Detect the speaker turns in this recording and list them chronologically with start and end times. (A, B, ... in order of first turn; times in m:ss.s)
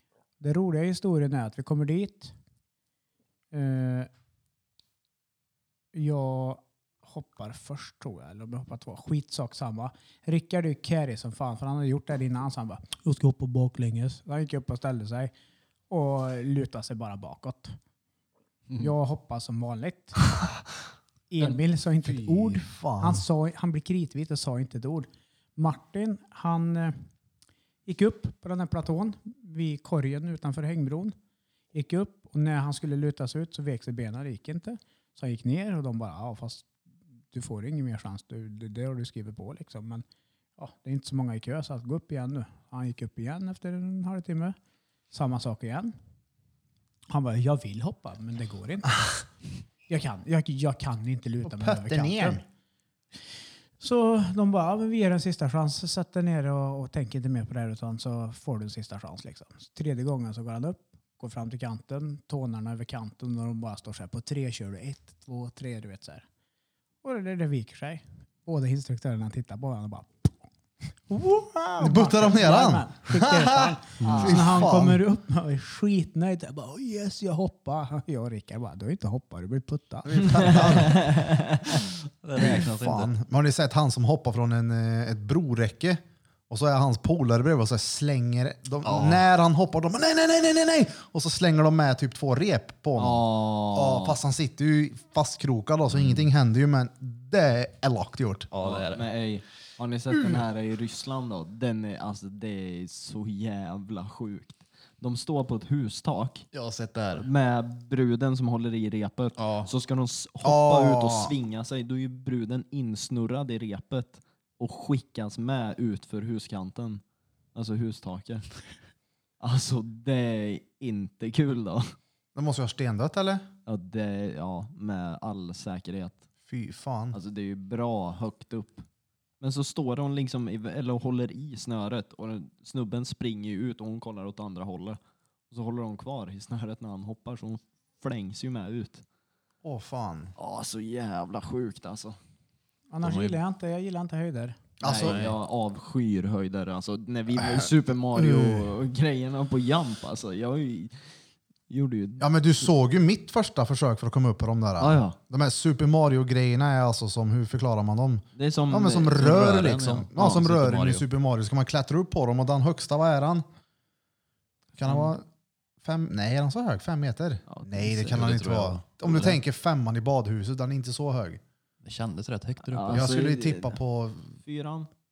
0:00.4-0:02.3 A
0:03.5-0:04.1 A
0:05.9-0:15.3 A
0:15.9-0:17.8 A
0:18.8-0:20.2 A
0:21.3-0:27.0 A
0:22.0-0:23.2 B
0:27.9-0:31.2 A
0:31.7-0:36.7 A
0:37.3-0:40.0 A
0:40.6-0:44.6 A
0:45.1-0:45.9 A
0:47.1-0:49.2 A
0:49.9-0:52.4 A
0:51.4-0:52.4 B
0:53.8-1:06.3 A
1:07.0-1:10.4 A
1:11.1-1:21.0 A
1:11.8-1:15.0 B
1:14.0-1:14.4 C
1:20.0-1:21.3 B
1:20.6-1:21.6 C
1:21.7-1:23.1 D
1:22.4-1:38.5 B
1:28.9-1:29.2 D
1:33.0-1:34.2 C
1:35.9-1:36.3 D
1:38.5-1:39.1 D
1:38.6-1:46.4 C
1:40.1-1:40.4 B
1:46.5-1:47.3 D
1:47.2-1:57.0 C
1:49.4-1:49.7 D
1:50.4-1:51.3 B
1:57.6-1:58.4 C
1:59.4-2:01.9 C
2:02.4-2:03.4 B
2:03.7-2:06.2 C
2:06.5-2:07.2 B
2:07.1-2:08.8 C
2:09.4-2:15.0 C
2:15.5-2:19.0 C
2:19.6-2:20.3 B
2:20.4-2:22.2 C
2:22.9-2:24.6 A
2:23.0-2:23.4 D
2:24.8-2:25.2 B
2:24.8-2:31.1 C
2:25.0-2:25.4 D
2:27.4-2:28.7 B
2:31.7-2:32.7 C
2:32.2-2:43.4 B
2:34.8-2:35.2 C
2:38.4-2:39.6 C
2:39.2-2:41.0 D
2:44.8-2:45.2 B
2:44.8-2:45.1 C
2:45.8-2:51.4 B
2:47.5-2:47.9 C
2:47.8-2:49.4 D
2:51.8-2:53.0 D
2:52.7-2:53.8 C
2:52.9-2:54.4 B
2:54.4-2:54.9 C